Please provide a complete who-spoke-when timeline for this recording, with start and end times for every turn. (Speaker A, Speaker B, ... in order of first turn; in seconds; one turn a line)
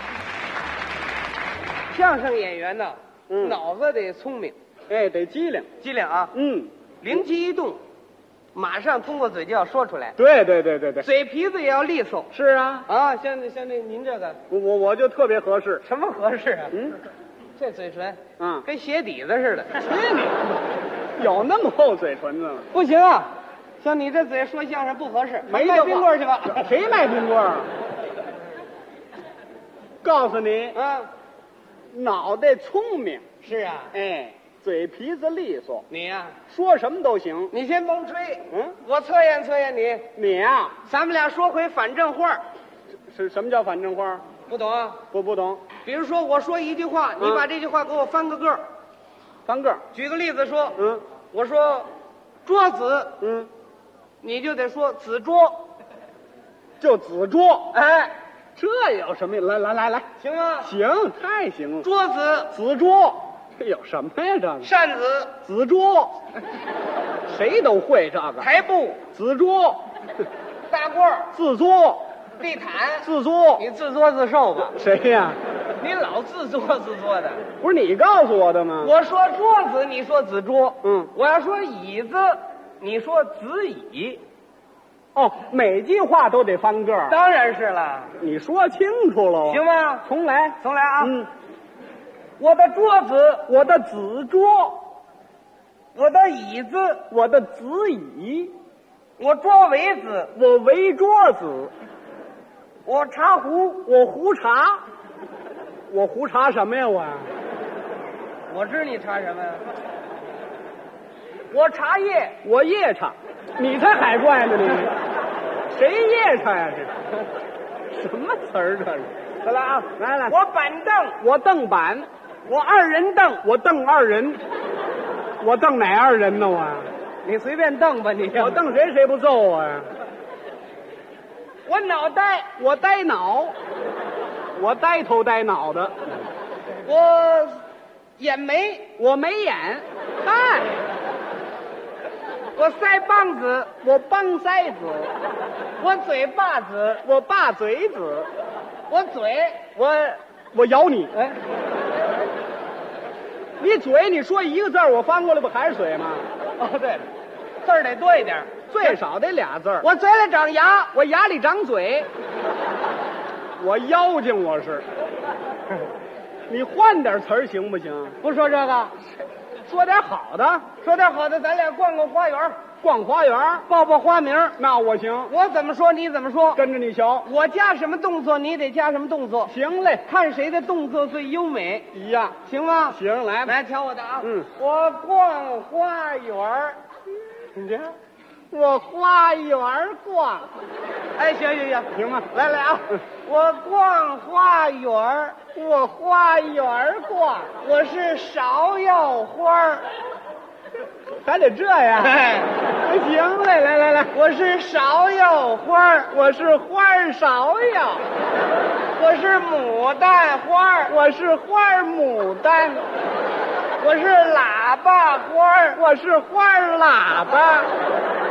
Speaker A: 1.9-4.6
Speaker B: 3.3-3.6
Speaker B: 4.9-5.7
Speaker A: 5.8-6.3
Speaker B: 6.3-6.7
Speaker A: 7.0-7.8
Speaker A: 8.5-10.2
Speaker B: 10.2-11.1
Speaker A: 11.0-12.3
Speaker B: 12.3-12.9
Speaker A: 12.9-14.4
Speaker B: 14.5-15.8
Speaker A: 15.8-16.8
Speaker B: 16.7-17.0
Speaker A: 17.6-19.9
Speaker B: 18.4-18.6
Speaker B: 19.8-20.4
Speaker B: 21.2-22.7
Speaker A: 22.7-26.7
Speaker B: 25.5-27.7
Speaker B: 30.0-30.8
Speaker A: 30.7-31.1
Speaker B: 31.9-33.2
Speaker A: 33.4-33.9
Speaker B: 33.9-35.9
Speaker A: 35.9-36.4
Speaker B: 36.5-37.5
Speaker A: 37.5-40.1
Speaker B: 38.5-38.8
Speaker B: 40.1-40.8
Speaker A: 40.9-42.4
Speaker B: 43.1-44.2
Speaker A: 44.5-45.0
Speaker B: 45.1-45.6
Speaker A: 45.8-48.6
Speaker B: 47.2-47.5
Speaker B: 49.5-49.8
Speaker A: 49.9-51.9
Speaker B: 50.8-51.0
Speaker A: 52.5-53.1
Speaker B: 53.2-53.5
Speaker A: 54.2-55.6
Speaker B: 56.8-57.7
Speaker A: 57.7-58.1
Speaker B: 58.6-60.1
Speaker A: 60.2-60.7
Speaker B: 60.6-61.9
Speaker A: 61.8-62.5
Speaker B: 62.5-64.7
Speaker A: 64.6-65.3
Speaker B: 65.4-66.2
Speaker B: 67.3-68.5
Speaker A: 68.4-69.0
Speaker B: 69.1-69.8
Speaker A: 70.7-71.3
Speaker B: 71.3-72.1
Speaker A: 72.4-74.8
Speaker B: 73.0-73.7
Speaker B: 74.8-75.4
Speaker A: 75.8-77.4
Speaker B: 77.6-78.9
Speaker A: 78.8-84.2
Speaker B: 80.8-81.1
Speaker B: 85.1-87.2
Speaker A: 87.1-88.1
Speaker B: 88.2-91.3
Speaker A: 89.4-90.0
Speaker A: 90.6-91.2
Speaker A: 92.4-93.5
Speaker B: 93.5-94.8
Speaker A: 95.9-97.0
Speaker B: 97.1-98.5
Speaker A: 99.2-100.3
Speaker B: 100.3-101.7
Speaker A: 102.8-103.9
Speaker B: 103.8-104.8
Speaker B: 105.9-107.3
Speaker A: 108.5-109.7
Speaker A: 111.5-112.4
Speaker B: 112.4-114.9
Speaker B: 115.7-116.9
Speaker B: 117.9-119.1
Speaker A: 119.4-121.2
Speaker B: 119.9-120.4
Speaker B: 121.2-124.4
Speaker A: 122.5-123.3
Speaker B: 125.4-126.9
Speaker A: 127.2-128.6
Speaker B: 128.3-129.9
Speaker A: 131.7-132.5
Speaker B: 132.6-133.6
Speaker B: 134.6-136.0
Speaker A: 136.8-137.6
Speaker A: 138.2-138.9
Speaker B: 139.0-140.7
Speaker A: 142.6-143.7
Speaker B: 143.8-145.1
Speaker A: 145.8-147.0
Speaker B: 147.0-148.3
Speaker A: 148.9-149.7
Speaker B: 149.8-151.2
Speaker B: 153.6-156.2
Speaker A: 156.6-157.1
Speaker A: 157.6-159.0
Speaker B: 158.7-159.9
Speaker A: 159.8-161.0
Speaker B: 160.9-162.1
Speaker B: 163.6-164.9
Speaker B: 166.5-168.2
Speaker A: 168.2-169.0
Speaker B: 169.7-170.7
Speaker A: 170.8-172.6
Speaker B: 172.8-173.7
Speaker A: 173.7-174.6
Speaker B: 174.6-175.3
Speaker A: 175.3-176.6
Speaker B: 176.6-177.3
Speaker A: 177.2-179.5
Speaker B: 179.5-180.1
Speaker A: 180.1-181.9
Speaker B: 181.9-182.4
Speaker A: 182.4-186.8
Speaker B: 182.9-183.6
Speaker B: 184.2-184.5
Speaker A: 187.5-187.9
Speaker B: 188.5-190.5
Speaker A: 191.2-195.5
Speaker B: 191.9-192.3
Speaker B: 195.6-197.5
Speaker A: 197.5-199.9
Speaker B: 201.2-204.1
Speaker A: 202.0-202.6
Speaker A: 204.1-206.1
Speaker B: 206.1-208.0
Speaker A: 208.9-211.0
Speaker B: 210.9-212.8
Speaker A: 213.8-215.8
Speaker B: 215.8-217.7